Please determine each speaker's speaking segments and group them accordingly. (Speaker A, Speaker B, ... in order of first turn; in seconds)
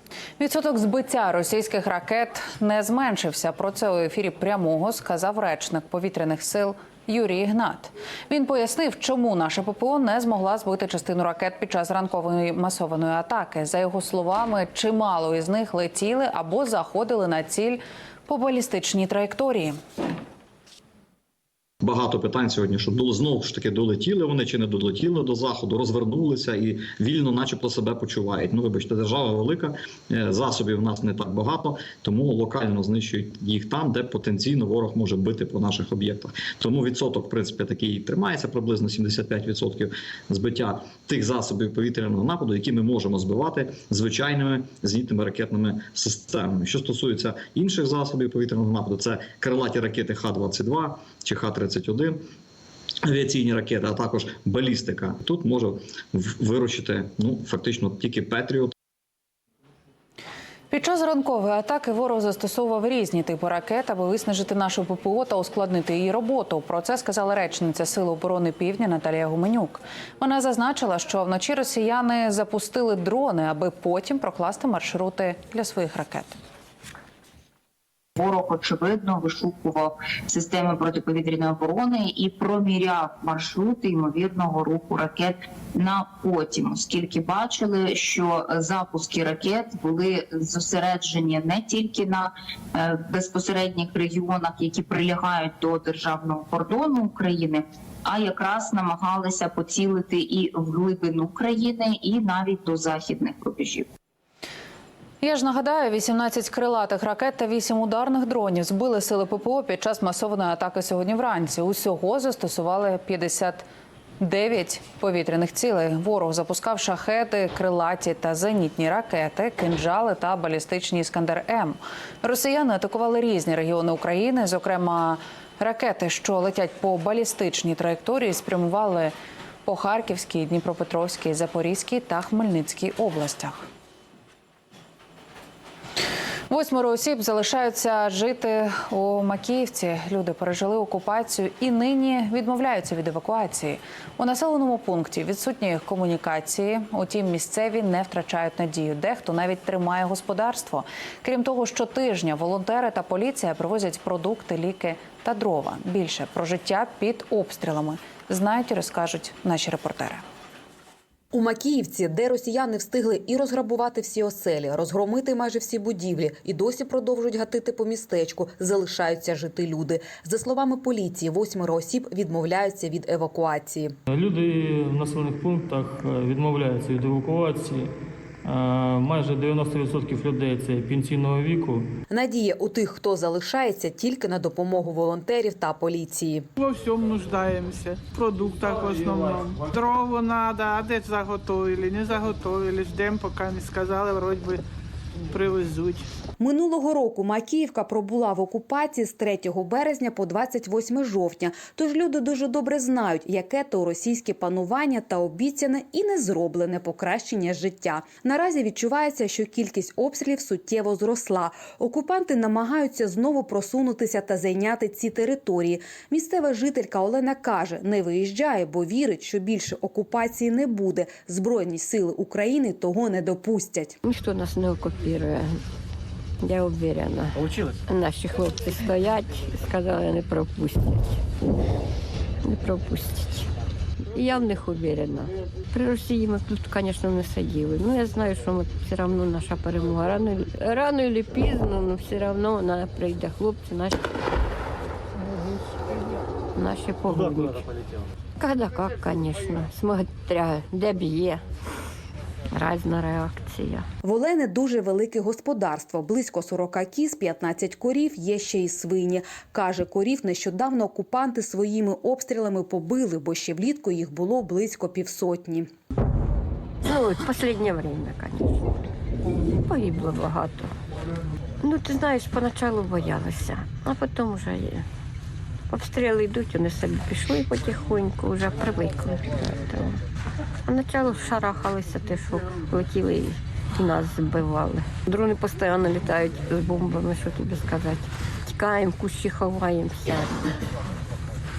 Speaker A: 0.4-19.8, 60.7-76.4, 105.2-113.7, 114.2-129.1, 129.7-133.7, 136.5-160.2
Speaker B: 21.8-52.2, 53.0-58.7
Speaker C: 78.2-103.9
Speaker D: 161.3-173.9, 182.1-186.5, 196.4-224.0, 254.0-265.7
Speaker E: 174.1-181.9
Speaker F: 186.6-194.6, 195.3-196.1
Speaker G: 224.0-225.6, 226.4-231.2, 232.4-233.5, 234.1-244.0, 246.6-247.6, 248.4-251.4, 252.5-253.9, 266.8-270.7, 271.6-274.9, 275.7-280.0, 280.7-290.5